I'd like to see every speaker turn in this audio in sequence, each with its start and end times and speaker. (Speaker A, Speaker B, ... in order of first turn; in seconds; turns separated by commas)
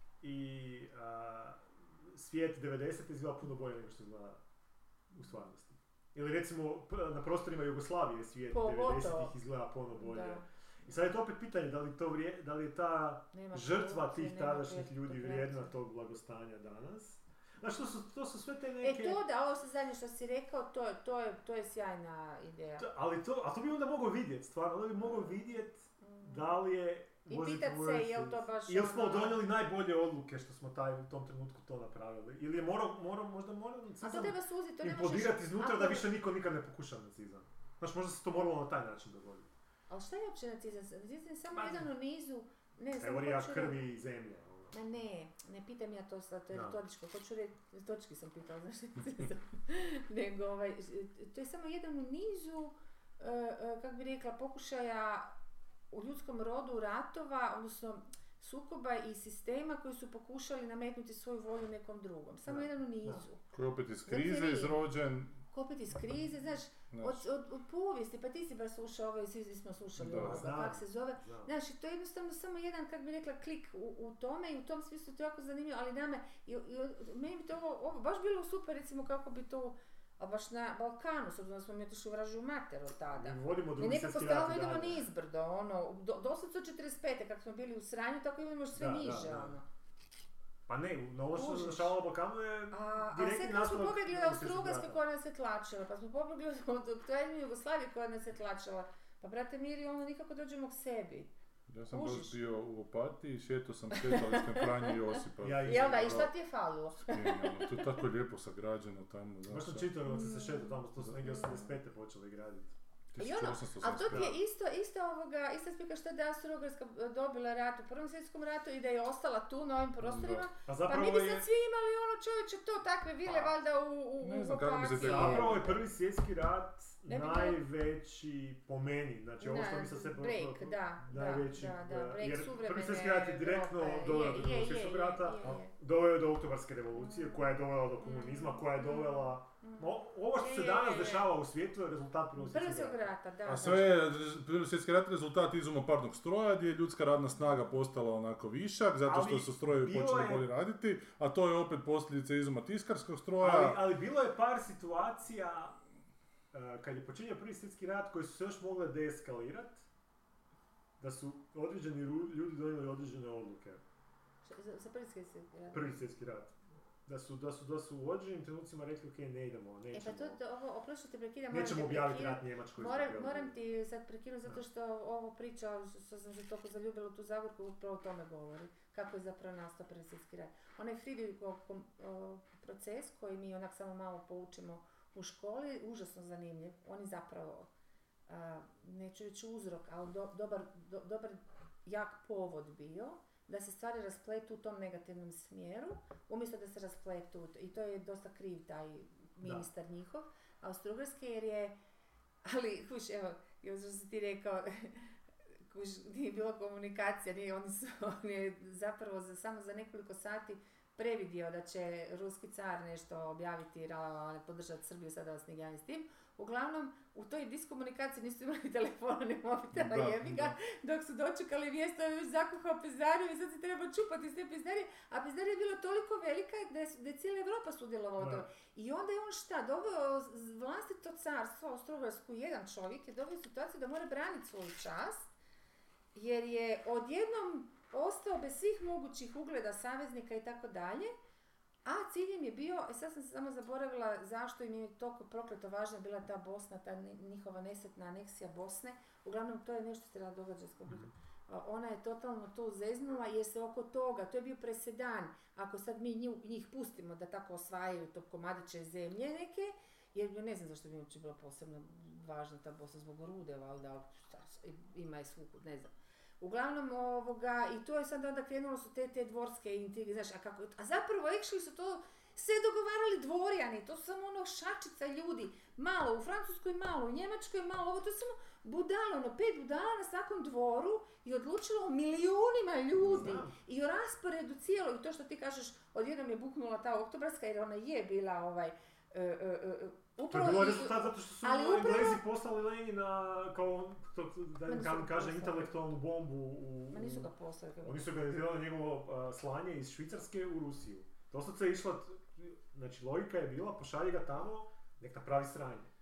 Speaker A: 0.2-4.4, Speaker A: 5.1-19.2, Speaker B: 8.5-9.3, Speaker B: 10.0-10.4, Speaker B: 13.3-15.7, Speaker B: 18.8-22.9, Speaker A: 22.8-39.5, Speaker B: 26.1-26.5, Speaker B: 27.3-29.4, Speaker B: 34.0-36.1, Speaker B: 39.9-43.8, Speaker A: 41.5-41.9, Speaker A: 43.0-44.8, Speaker B: 44.7-55.3, Speaker A: 46.5-46.8, Speaker B: 55.9-63.4, Speaker A: 62.5-63.2, Speaker C: 63.5-65.4, Speaker B: 64.1-64.8, Speaker B: 65.5-89.7, Speaker C: 66.9-67.2, Speaker C: 70.0-70.5, Speaker A: 70.0-71.5, Speaker A: 83.1-85.0, Speaker A: 88.8-89.6, Speaker A: 90.7-95.0, Speaker B: 91.3-92.0, Speaker B: 92.7-101.3, Speaker C: 101.7-106.3, Speaker B: 101.9-102.4, Speaker B: 103.9-107.9, Speaker A: 105.4-106.3, Speaker C: 107.0-109.9, Speaker A: 109.5-112.8, Speaker B: 110.0-111.7, Speaker C: 113.1-114.3, Speaker B: 113.2-125.8, Speaker A: 114.1-114.4, Speaker C: 120.0-120.5, Speaker A: 120.7-121.5, Speaker A: 123.2-123.5, Speaker C: 124.2-125.7, Speaker A: 125.0-143.1, Speaker B: 127.1-127.6, Speaker B: 129.4-135.7, Speaker B: 137.0-137.5, Speaker B: 138.0-141.3, Speaker B: 142.4-144.0, Speaker C: 143.5-153.8, Speaker A: 149.1-150.5, Speaker A: 153.4-155.8, Speaker A: 156.5-159.9, Speaker A: 161.0-163.8, Speaker B: 164.4-165.9, Speaker A: 165.7-166.6, Speaker A: 167.1-170.4, Speaker B: 169.9-187.7, Speaker A: 171.5-173.5, Speaker B: 188.3-201.8, Speaker A: 199.4-199.7, Speaker B: 202.4-235.3, Speaker C: 219.8-220.6, Speaker A: 228.2-228.5, Speaker B: 236.1-241.1, Speaker B: 241.8-292.2, Speaker A: 250.9-251.1, Speaker A: 283.0-283.6, Speaker A: 290.3-297.3, Speaker B: 294.7-295.9, Speaker B: 296.9-298.0, Speaker A: 297.8-305.9